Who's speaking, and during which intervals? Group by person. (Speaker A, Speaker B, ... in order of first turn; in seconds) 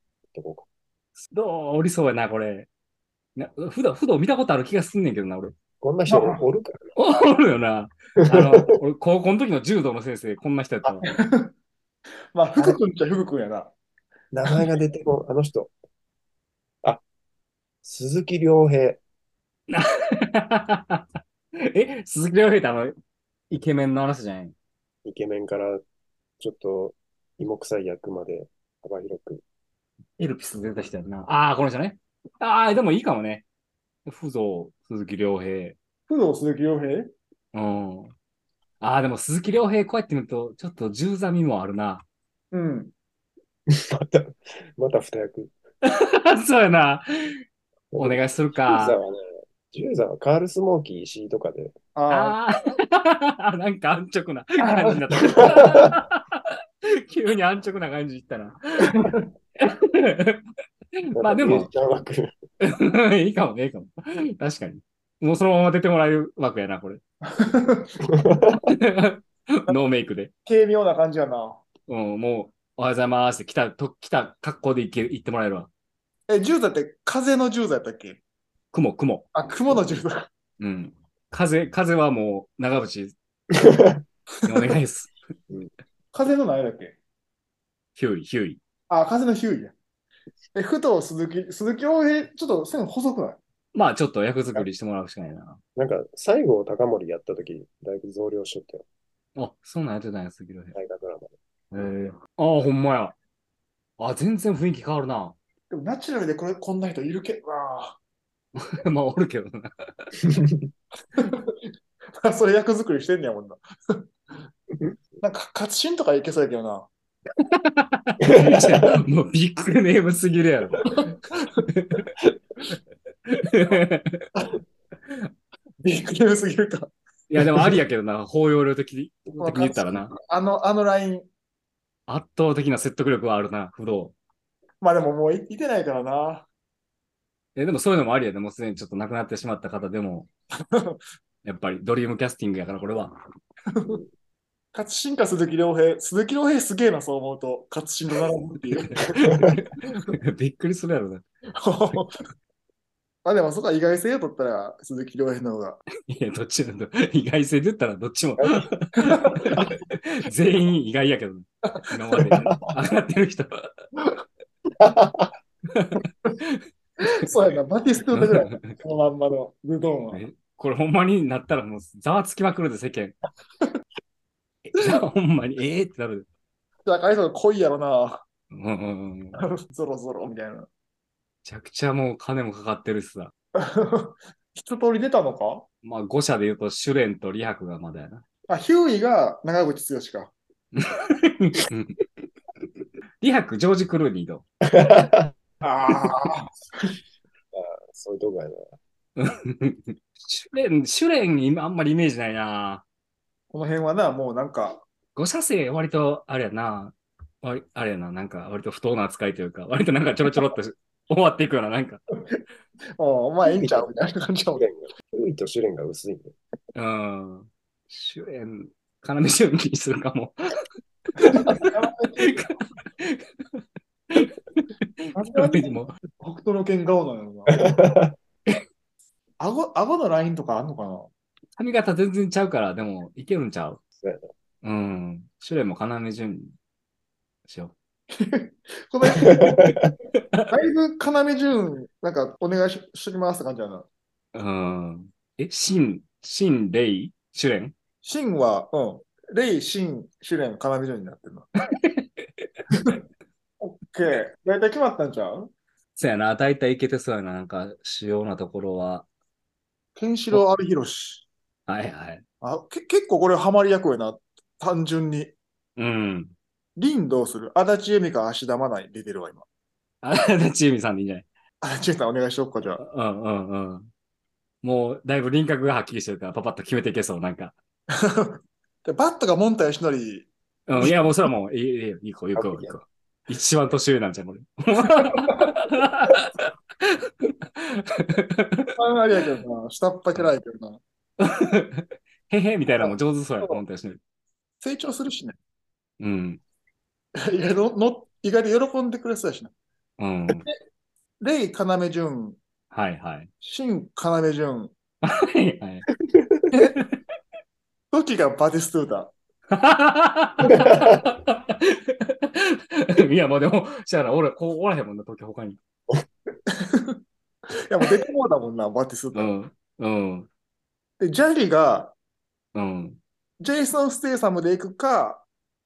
Speaker A: 0.3-0.7, 5.8-7.0, 8.2-8.7, 14.3-15.7, 17.8-19.0, 25.1-25.8, 26.4-29.4, 43.7-45.5, 47.9-51.8, 55.4-55.9, 61.2-62.3, 68.1-68.7, 83.5-84.0, 95.8-98.8, 100.7-101.3, 110.2-110.7, 118.2-119.0, 149.3-149.5, 158.4-158.7, 164.8-165.3, 194.7-195.3, 197.5-198.7, 213.4-213.9, 214.6-216.3, 227.6-228.1, 234.0-234.3, 239.2-239.9, 282.3-282.8, 306.1-306.5, 310.5-311.0
Speaker B: 1.3-2.7, 3.4-5.6, 7.0-11.1, 19.7-21.1, 21.6-22.9, 23.5-24.6, 30.2-33.5, 34.1-35.8, 37.5-38.1, 38.8-42.0, 45.8-47.4, 48.0-49.0, 52.1-60.4, 61.0-61.7, 62.6-67.0, 68.6-70.3, 71.9-75.7, 78.7-79.3, 80.6-83.2, 84.4-85.1, 88.0-88.6, 93.7-95.6, 99.4-100.8, 101.7-103.2, 104.0-105.4, 108.5-110.1, 117.5-122.1, 123.3-124.3, 127.3-130.1, 132.1-134.2, 137.6-140.3, 141.4-143.1, 148.9-151.2, 156.1-163.8, 165.7-166.6, 168.1-168.8, 170.1-173.2, 174.7-176.3, 178.5-179.4, 181.4-183.3, 185.8-188.2, 190.8-192.1, 193.2-194.4, 199.2-202.8, 205.2-212.0, 216.8-220.4, 221.2-223.6, 224.1-225.9, 231.6-233.8, 234.6-236.5, 237.5-237.7, 240.2-240.5, 244.3-247.7, 251.8-252.5, 256.0-259.1, 261.7-262.2, 265.8-266.3, 270.0-271.3, 272.8-273.9, 274.6-277.6, 280.7-288.8, 291.2-294.0, 296.0-296.4, 300.0-300.5, 302.7-303.3, 305.0-305.9, 306.5-307.0, 309.5-315.6, 319.1-320.3, 322.5-323.0
Speaker C: 6.1-6.4, 10.9-11.5, 12.3-13.7, 36.1-37.1, 42.5-42.9, 52.0-52.4, 54.6-55.0, 59.0-59.2, 67.3-68.0, 70.5-71.6, 76.3-78.2, 79.3-80.3, 86.1-87.0, 88.9-89.7, 90.5-93.4, 105.7-108.0, 111.2-111.6, 112.2-114.0, 115.2-116.9, 125.8-126.9, 129.4-131.3, 134.8-136.5, 140.7-141.0, 143.7-144.0, 144.7-149.2, 151.6-152.2, 153.2-155.8, 159.1-159.6, 167.0-170.2, 176.9-178.2, 179.4-180.7, 183.6-185.7, 188.5-190.3, 195.6-196.9, 203.5-204.8, 213.0-214.7, 221.3-222.6, 225.2-227.8, 229.4-231.1, 238.1-239.8, 240.5-243.9, 248.0-251.5, 252.7-253.0, 253.6-255.5, 260.0-261.2, 262.4-265.3, 266.8-269.4, 271.6-272.8, 277.9-280.3, 288.8-290.8, 292.8-293.6, 294.6-295.4, 297.2-299.5, 301.2-302.4, 303.4-304.7, 307.9-309.1, 316.5-317.0, 317.7-319.3, 321.0-321.9, 323.4-325.2